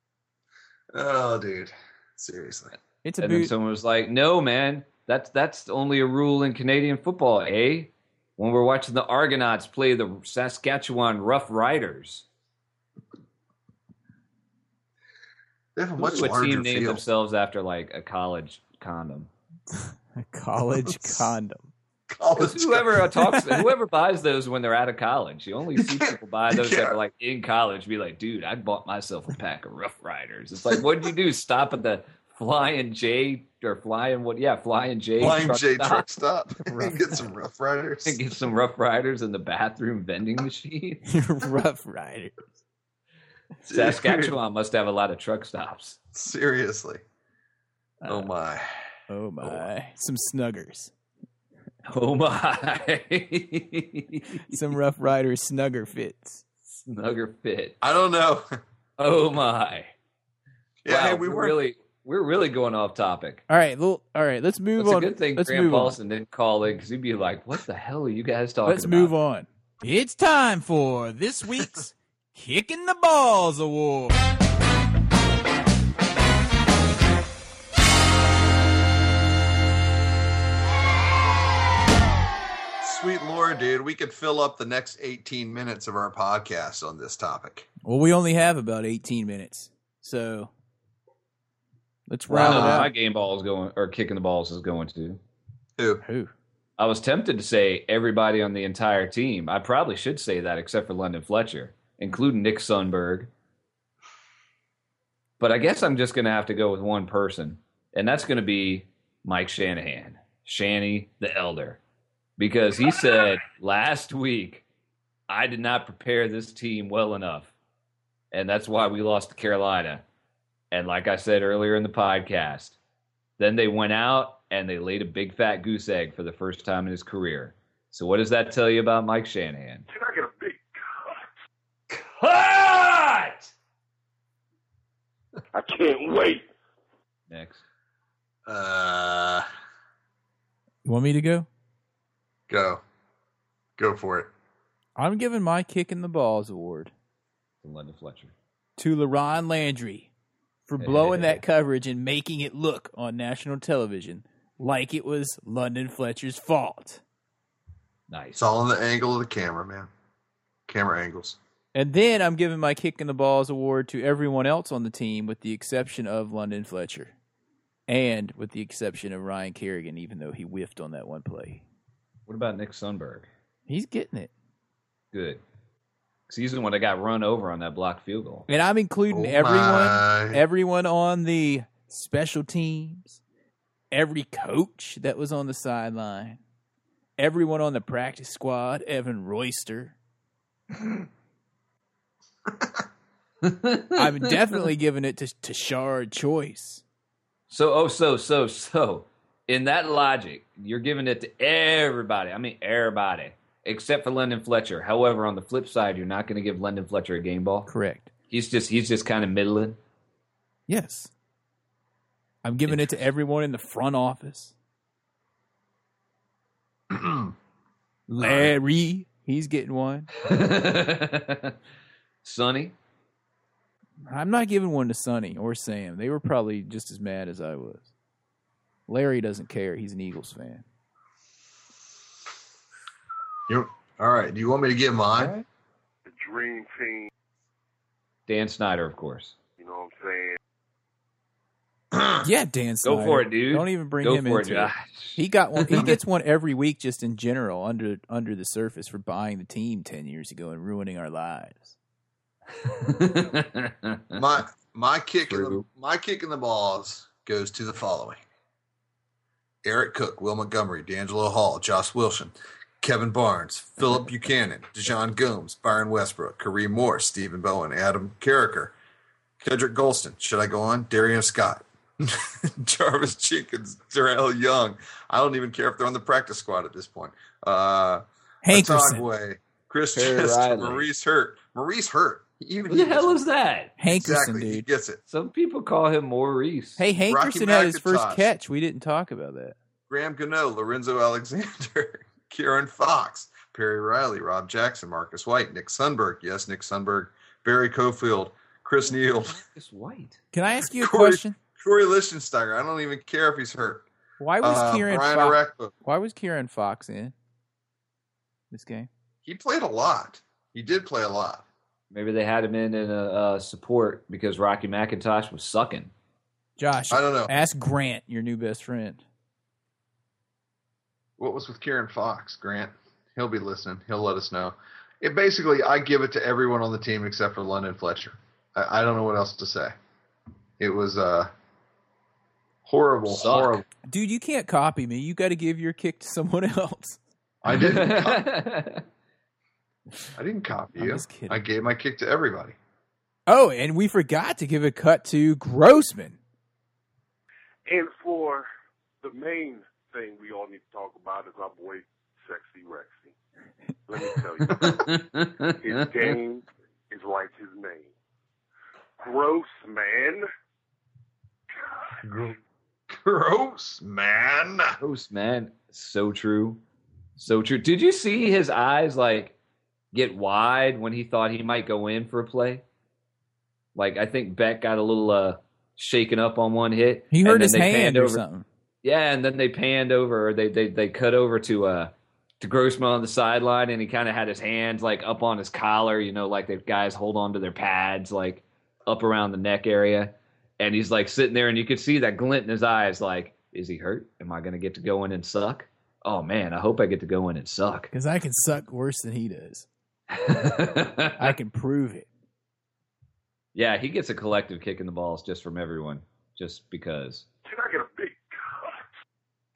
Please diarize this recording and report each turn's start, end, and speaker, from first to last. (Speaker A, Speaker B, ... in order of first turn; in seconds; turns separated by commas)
Speaker A: 0.9-2.7, Speaker B: 3.0-3.5, Speaker C: 3.2-12.3, Speaker A: 15.8-17.0, Speaker C: 16.0-19.3, Speaker B: 19.7-21.7, Speaker A: 20.8-21.3, Speaker A: 22.1-23.1, Speaker C: 22.4-36.0, Speaker B: 23.2-23.6, Speaker A: 25.8-27.0, Speaker A: 35.2-38.2, Speaker B: 36.5-37.3, Speaker C: 38.0-41.0, Speaker B: 41.1-42.5, Speaker A: 43.7-44.4, Speaker C: 43.7-46.0, Speaker A: 46.1-47.0, Speaker B: 48.0-48.3, Speaker A: 48.1-48.9, Speaker B: 49.1-50.9, Speaker C: 51.9-54.6, Speaker B: 54.5-56.4, Speaker C: 56.7-57.8, Speaker A: 57.8-58.5, Speaker C: 59.0-59.9, Speaker A: 60.8-61.6, Speaker C: 60.9-63.4, Speaker B: 63.5-66.0, Speaker C: 64.8-69.1, Speaker B: 68.7-74.2, Speaker A: 82.8-87.7, Speaker B: 87.8-90.5, Speaker B: 92.1-92.9, Speaker C: 92.3-95.2, Speaker A: 92.3-92.9, Speaker A: 95.8-96.0, Speaker B: 96.0-96.3, Speaker C: 96.8-103.3, Speaker C: 105.4-111.8, Speaker C: 112.4-114.7, Speaker C: 115.3-117.5, Speaker C: 118.3-120.0, Speaker C: 120.7-122.8, Speaker C: 123.4-129.9, Speaker D: 129.9-131.3, Speaker C: 131.9-133.5, Speaker D: 135.5-136.5, Speaker C: 137.3-137.6, Speaker A: 138.5-139.5, Speaker B: 140.8-141.5, Speaker A: 142.5-142.8, Speaker A: 143.8-144.3, Speaker B: 145.0-146.9, Speaker C: 147.6-148.3, Speaker B: 148.8-150.1, Speaker B: 150.7-157.0, Speaker C: 150.8-151.4, Speaker C: 158.1-158.4, Speaker A: 158.4-159.9, Speaker A: 160.7-161.4, Speaker B: 161.7-167.1, Speaker B: 167.9-171.6, Speaker C: 172.3-173.3, Speaker B: 173.7-174.3, Speaker C: 175.1-175.4, Speaker C: 176.3-178.5, Speaker B: 178.5-183.2, Speaker A: 179.1-180.4, Speaker B: 183.9-186.4, Speaker B: 187.2-190.0, Speaker C: 193.4-194.3, Speaker B: 194.0-196.8, Speaker C: 197.5-207.7, Speaker B: 207.7-208.1, Speaker C: 208.3-209.8, Speaker B: 210.7-211.1, Speaker B: 212.4-214.5, Speaker A: 216.9-217.3, Speaker B: 218.1-220.1, Speaker C: 220.2-221.6, Speaker C: 222.2-222.8, Speaker B: 224.1-227.9, Speaker B: 228.9-230.6, Speaker A: 233.5-235.4, Speaker D: 236.1-237.1, Speaker C: 238.3-239.3, Speaker D: 239.6-240.4, Speaker A: 241.9-242.2, Speaker B: 242.2-251.8, Speaker C: 242.8-245.9, Speaker C: 252.6-254.2, Speaker A: 254.1-258.2, Speaker C: 255.3-255.6, Speaker A: 259.6-268.8, Speaker A: 269.4-283.2, Speaker B: 278.4-279.1, Speaker C: 279.9-280.9, Speaker C: 282.7-283.7, Speaker B: 283.8-284.7, Speaker A: 283.9-285.0, Speaker C: 285.1-286.8, Speaker B: 286.8-289.6, Speaker A: 287.1-288.3, Speaker A: 289.9-299.4, Speaker C: 299.2-300.2, Speaker B: 300.3-301.4, Speaker A: 300.6-303.9, Speaker B: 304.2-307.1, Speaker A: 304.4-305.7, Speaker B: 308.5-308.9, Speaker A: 309.2-311.5, Speaker C: 311.9-315.9, Speaker B: 316.6-319.0, Speaker A: 316.9-317.4, Speaker A: 321.2-329.8, Speaker A: 330.6-331.3, Speaker A: 332.6-333.6, Speaker C: 333.1-333.6, Speaker B: 333.9-337.0, Speaker A: 337.4-338.3, Speaker C: 337.5-338.9, Speaker A: 340.1-342.6, Speaker B: 340.8-341.4, Speaker B: 343.3-346.2, Speaker D: 347.7-348.5, Speaker D: 349.0-353.1, Speaker D: 353.9-354.8, Speaker A: 354.5-354.8, Speaker C: 354.6-356.2, Speaker D: 355.6-357.9, Speaker D: 359.0-360.3, Speaker A: 362.0-364.8, Speaker C: 364.8-366.6, Speaker C: 367.2-369.4, Speaker C: 369.9-372.6, Speaker C: 373.8-378.2, Speaker B: 377.1-378.5, Speaker C: 378.8-397.9, Speaker B: 397.9-399.7, Speaker C: 400.1-401.3, Speaker B: 401.2-402.1, Speaker C: 403.6-407.2, Speaker D: 407.5-408.9